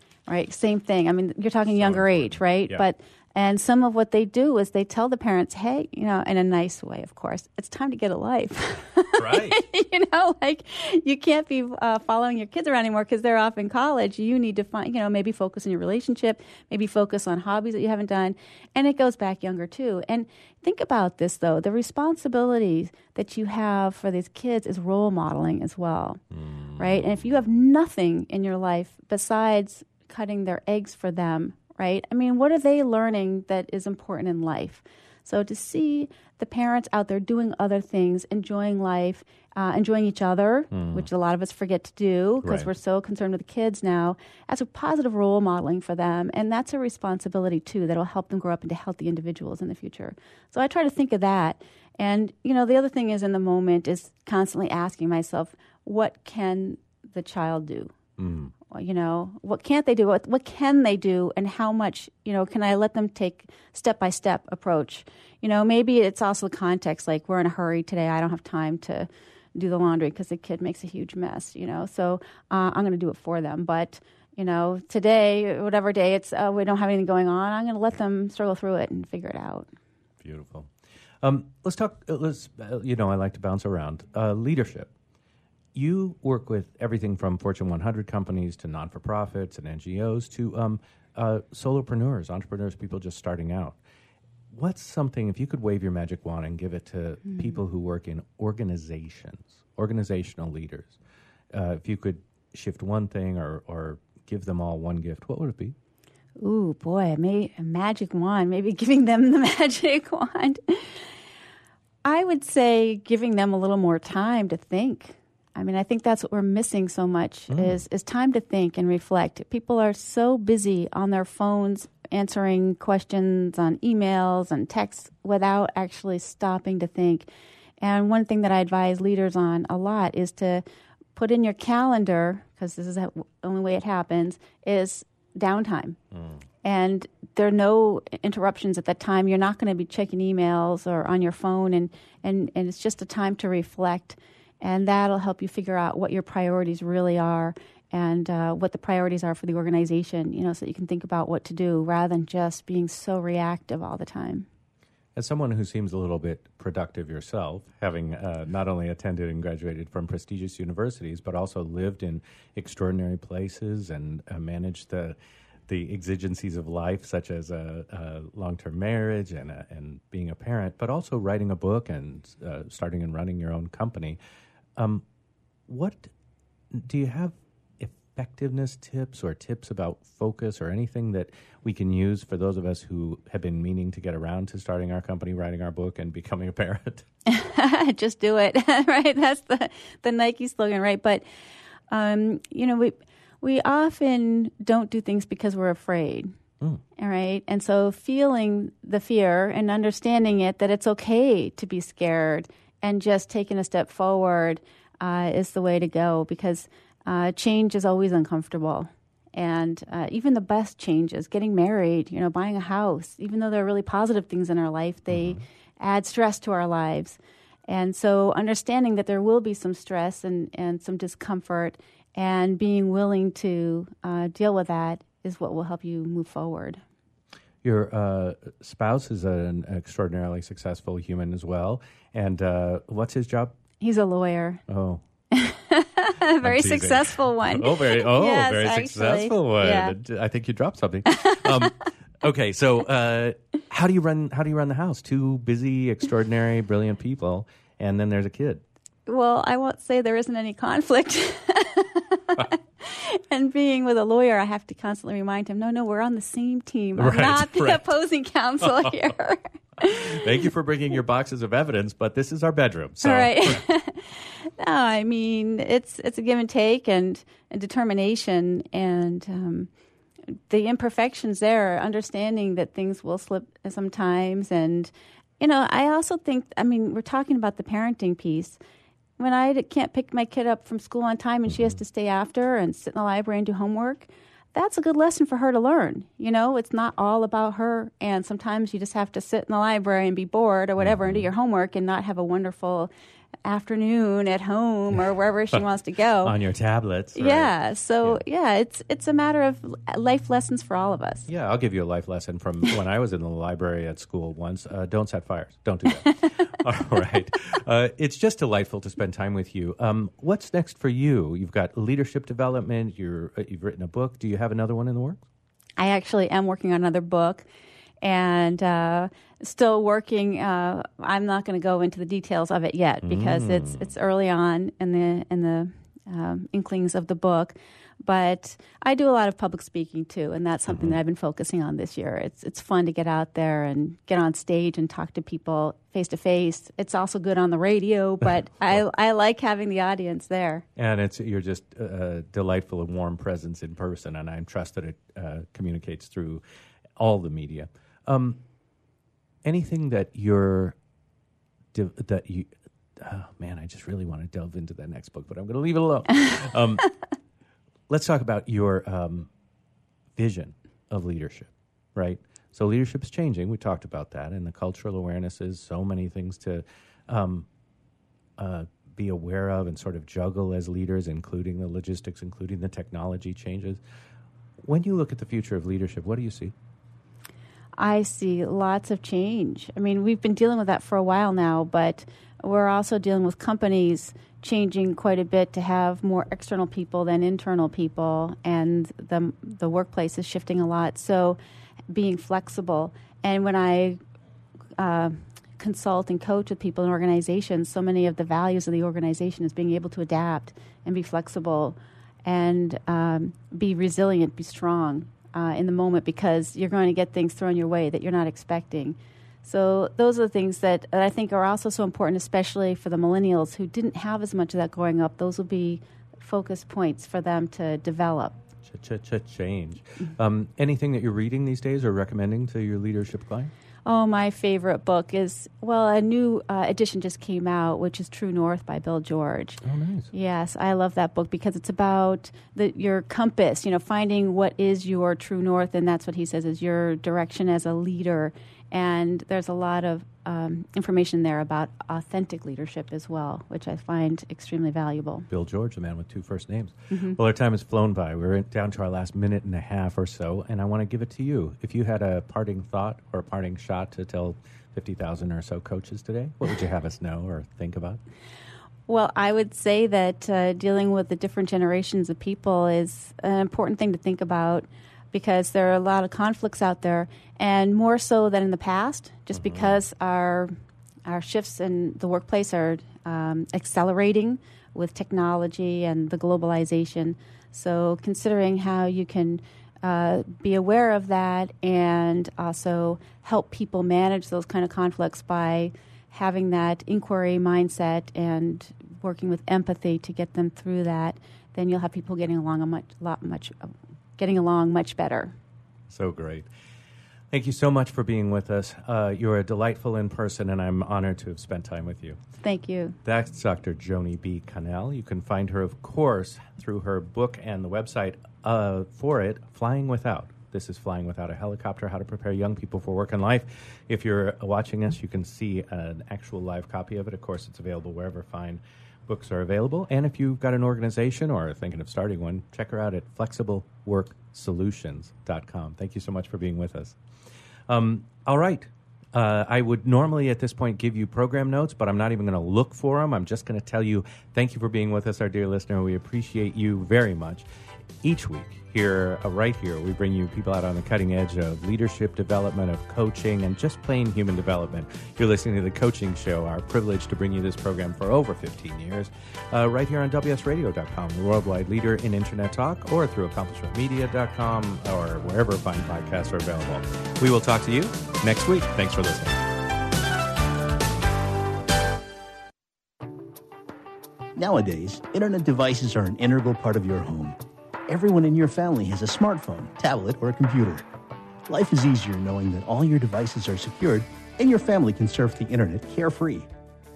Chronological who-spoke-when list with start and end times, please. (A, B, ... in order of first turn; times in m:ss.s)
0:00.3-0:26.2 A
0:01.7-0:02.8 B
0:09.2-0:09.6 B
0:26.3-0:27.3 B
0:26.8-0:57.9 A
0:40.7-0:41.1 B
0:42.4-0:42.7 B
0:58.2-0:58.5 B
0:58.7-1:19.7 A
1:20.2-1:20.7 B
1:21.2-1:24.9 B
1:25.7-1:33.8 B
1:34.5-1:41.0 B
1:41.5-1:45.8 B
1:46.4-1:51.1 A
1:52.0-2:07.3 A
1:57.5-1:57.8 B
2:07.8-2:10.6 A
2:11.2-2:16.0 A
2:16.1-2:16.4 B
2:16.6-2:34.4 A
2:35.1-2:45.2 B
2:45.7-2:54.2 B
2:54.8-2:55.0 B
2:55.7-2:56.1 B
2:56.7-3:07.0 B
3:07.3-3:11.2 A
3:11.9-3:16.3 A
3:17.0-3:46.8 A
3:35.1-3:35.4 B
3:47.6-3:53.6 B
3:53.8-3:54.6 A
3:54.7-3:55.0 B
3:55.3-3:59.9 A
3:56.4-4:08.6 B
4:01.1-4:01.6 A
4:09.1-4:20.2 A
4:17.0-4:17.9 B
4:18.6-4:18.9 B
4:19.8-4:23.6 B
4:23.0-4:29.7 A
4:30.5-4:38.6 A
4:39.2-4:52.9 A
4:41.5-4:41.8 B
4:50.8-4:51.3 B
4:53.4-4:56.3 A
4:56.2-4:58.2 B
4:57.1-5:01.3 A
5:01.3-5:15.2 B
5:15.8-5:17.4 A
5:18.0-5:40.6 A
5:23.0-5:23.9 B
5:30.7-5:31.0 B
5:40.8-5:46.4 B
5:47.0-5:48.4 B
5:49.4-5:50.8 B
5:51.7-5:56.9 B
5:57.9-5:59.3 B
6:00.2-6:07.5 B
6:08.4-6:13.8 B
6:14.6-6:16.5 B
6:17.8-6:31.4 A
6:31.9-6:34.0 A
6:34.8-6:58.3 A
6:58.6-7:03.5 B
7:03.8-7:09.6 A
7:09.6-7:10.1 B
7:10.1-7:25.2 A
7:25.3-7:38.0 B
7:26.9-7:27.2 A
7:38.9-7:50.5 A
7:49.3-7:49.8 B
7:51.0-8:15.3 A
8:15.9-8:16.5 B
8:17.3-8:22.2 B
8:22.4-8:23.0 A
8:23.0-8:47.0 B
8:47.7-8:57.4 B
8:58.0-9:19.4 B
9:24.4-9:27.4 C
9:27.9-9:30.9 C
9:31.5-9:36.5 C